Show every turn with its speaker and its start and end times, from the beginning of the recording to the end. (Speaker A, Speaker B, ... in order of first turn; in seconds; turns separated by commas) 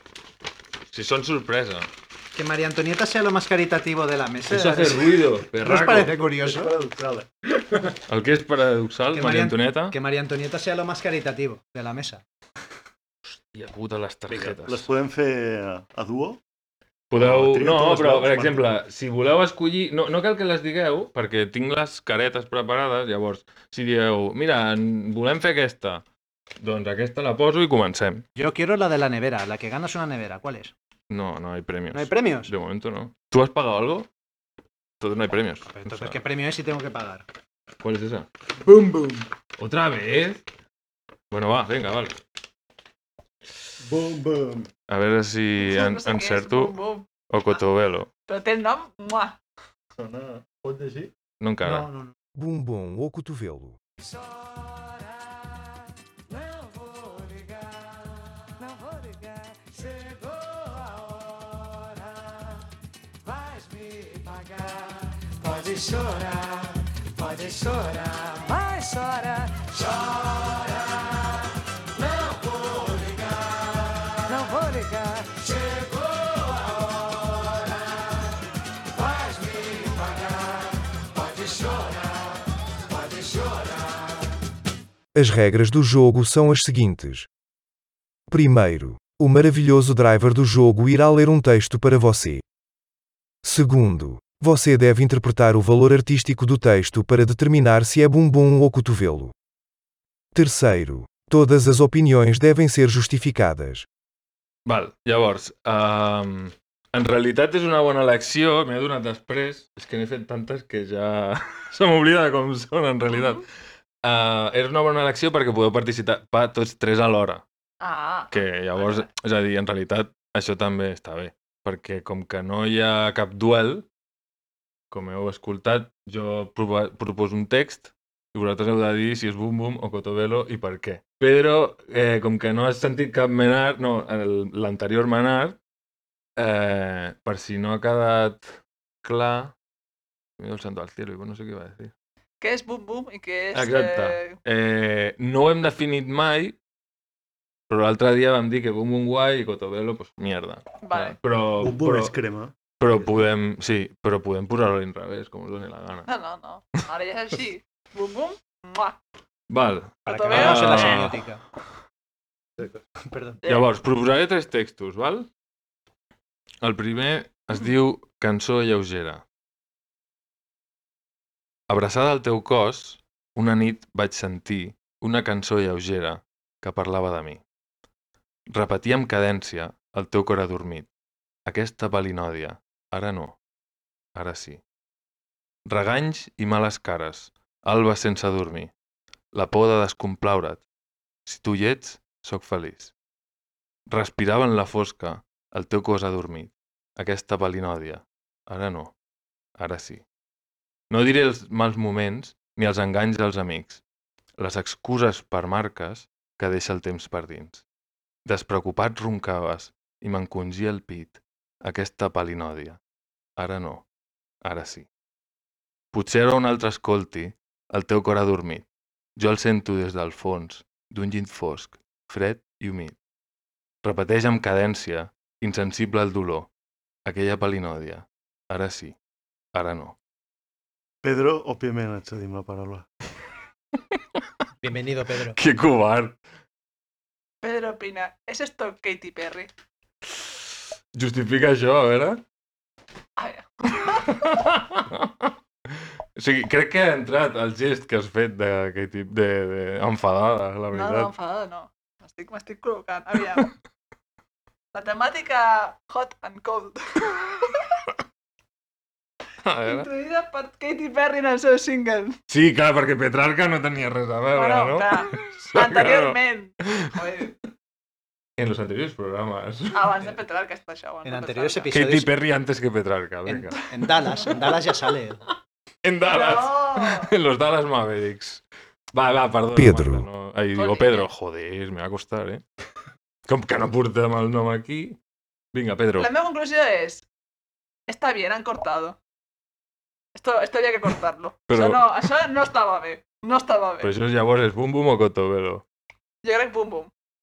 Speaker A: 0.9-1.9, Speaker B: 2.3-6.7, Speaker A: 4.5-6.2, Speaker C: 6.3-7.3, Speaker A: 8.1-9.9, Speaker B: 9.1-12.2, Speaker A: 13.4-14.8, Speaker C: 14.3-16.4, Speaker A: 17.1-26.0, Speaker C: 17.2-18.6, Speaker A: 26.6-28.2, Speaker B: 28.4-30.7, Speaker A: 31.1-34.1, Speaker B: 31.9-32.5, Speaker A: 35.0-36.2, Speaker B: 35.7-37.2, Speaker A: 37.8-38.3, Speaker C: 38.6-39.3, Speaker A: 39.6-40.4, Speaker A: 41.3-42.2, Speaker C: 43.8-44.7, Speaker A: 44.9-46.7, Speaker D: 45.6-47.1, Speaker A: 47.3-48.1, Speaker D: 48.3-49.4, Speaker C: 50.0-51.1, Speaker A: 51.4-51.9, Speaker B: 51.6-52.1, Speaker E: 52.4-53.8, Speaker E: 85.1-87.3, Speaker E: 88.3-92.4, Speaker E: 93.4-99.3, Speaker E: 100.3-103.8, Speaker A: 104.7-113.4, Speaker D: 113.1-113.4, Speaker A: 114.0-117.4, Speaker D: 117.8-119.0, Speaker A: 118.3-123.8, Speaker A: 124.9-135.6, Speaker A: 136.4-139.5, Speaker A: 140.4-141.9, Speaker D: 142.4-144.4, Speaker A: 143.5-146.6, Speaker A: 147.7-152.2, Speaker D: 150.8-151.2, Speaker C: 151.6-153.1, Speaker A: 152.8-156.1, Speaker D: 156.1-159.0, Speaker A: 159.5-161.2, Speaker D: 160.1-161.2, Speaker B: 160.1-161.4, Speaker B: 163.0-163.4, Speaker A: 163.4-165.3, Speaker A: 166.6-169.2, Speaker A: 171.7-177.4, Speaker A: 178.5-180.9, Speaker A: 181.4-183.4, Speaker A: 184.1-184.6, Speaker A: 185.7-188.7, Speaker A: 189.3-190.6, Speaker A: 191.2-192.9, Speaker A: 193.9-198.9, Speaker A: 199.6-200.0, Speaker A: 200.9-203.8, Speaker A: 204.4-207.6, Speaker A: 208.2-212.8, Speaker A: 213.4-213.8, Speaker A: 214.4-214.9, Speaker A: 215.9-218.7, Speaker A: 219.2-222.9, Speaker A: 223.8-226.5, Speaker A: 227.0-228.9, Speaker A: 229.5-229.9, Speaker C: 231.0-232.9, Speaker B: 234.6-235.4, Speaker A: 235.3-236.1, Speaker D: 237.4-239.5, Speaker A: 240.9-242.2, Speaker D: 243.2-244.1, Speaker A: 243.9-245.3, Speaker A: 246.2-251.1, Speaker D: 250.7-253.5, Speaker D: 254.7-257.6, Speaker A: 259.4-259.9, Speaker D: 259.7-262.2, Speaker A: 262.3-266.9, Speaker D: 264.3-267.3, Speaker A: 268.4-270.0, Speaker D: 269.7-271.7, Speaker B: 271.0-272.1, Speaker A: 271.7-273.6, Speaker B: 273.3-275.2, Speaker A: 275.8-278.4, Speaker D: 276.0-277.1, Speaker A: 278.9-282.4, Speaker E: 279.6-280.0, Speaker D: 280.5-281.1, Speaker A: 283.2-285.0, Speaker A: 285.5-286.1, Speaker D: 286.0-287.1, Speaker D: 287.9-289.0, Speaker D: 290.1-293.9, Speaker A: 291.5-291.8, Speaker A: 293.8-295.6, Speaker D: 296.2-296.9